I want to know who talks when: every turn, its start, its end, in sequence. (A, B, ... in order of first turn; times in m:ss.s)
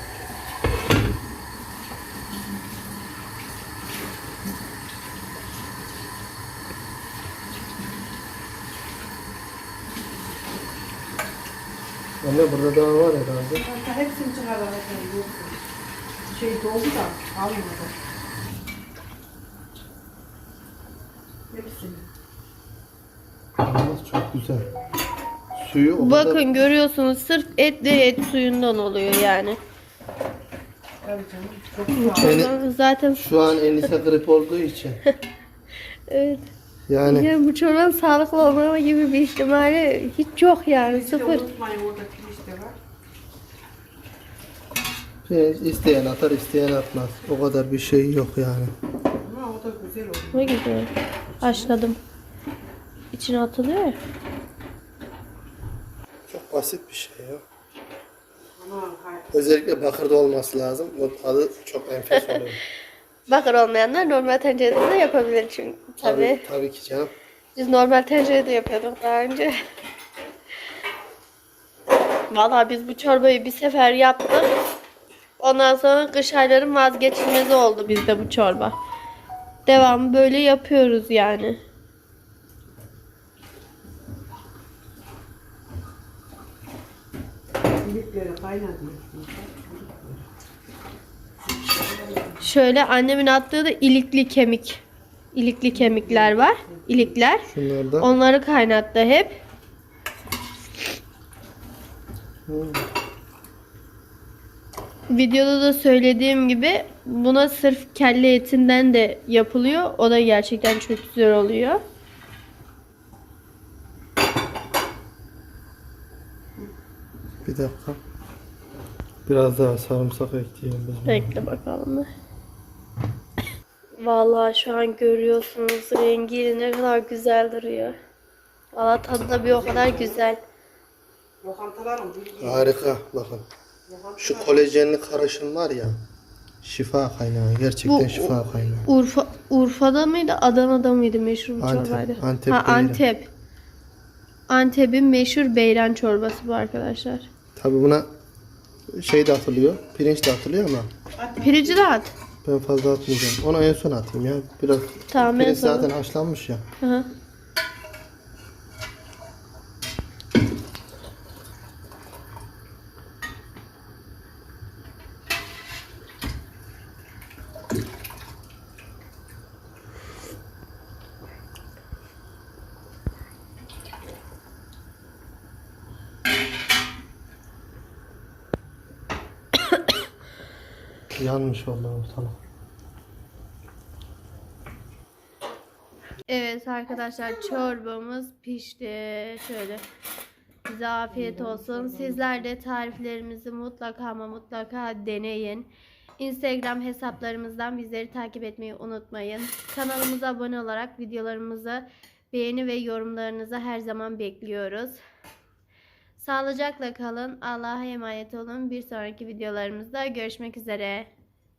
0:12.2-0:13.6 A
0:13.6-0:15.6 B
0:16.3-0:17.9 B
0:21.5-0:22.0 B
0:23.6-0:24.7 A
0:25.5-0:26.4 A
0:26.0-0:29.6 C
0:31.0-0:32.5 B
0:31.9-0:33.2 C
0:32.2-0:32.6 A
0:33.1-0:35.0 A
0:36.1-0:36.5 C
0:36.9-0:37.3 A
0:37.0-0:41.4 C
0:40.8-0:42.8 B
0:45.2-0:48.7 A
0:49.2-0:50.6 B
0:50.3-0:52.0 C
0:51.4-0:51.7 B
0:53.1-0:54.0 C
0:56.3-0:57.4 A
0:58.6-0:59.3 B
0:59.3-1:02.6 A
1:03.3-1:06.4 C
1:06.0-1:07.1 A
1:07.5-1:09.6 C
1:12.3-1:14.5 C
1:15.4-1:18.7 C
1:19.6-1:21.6 C
1:27.8-1:30.2 B
1:31.5-1:32.4 B
1:32.4-1:34.8 C
1:35.3-1:37.5 C
1:35.7-1:37.1 B
1:37.4-1:38.1 A
1:38.0-1:39.4 C
1:42.5-1:42.8 A
1:45.1-1:51.8 C
1:57.4-1:58.0 A
1:59.2-2:01.4 A
2:01.0-2:02.1 C
2:04.0-2:08.0 C
2:08.7-2:10.4 C
2:09.4-2:10.2 B
2:11.4-2:12.8 B
2:12.4-2:13.5 A
2:13.9-2:14.7 B
2:14.2-2:16.0 A
2:16.6-2:18.9 A
2:17.8-2:23.3 C
2:21.6-2:23.0 A
2:24.5-2:27.3 C
2:27.6-2:28.1 A
2:28.9-2:30.9 A
2:31.2-2:31.8 B
2:31.4-2:32.1 C
2:32.4-2:36.6 A
2:35.1-2:35.9 C
2:36.8-2:37.1 C
3:01.2-3:02.4 A
3:06.3-3:09.8 C
3:10.6-3:15.7 C
3:11.1-3:12.3 B
3:16.2-3:25.0 C
3:26.2-3:31.1 C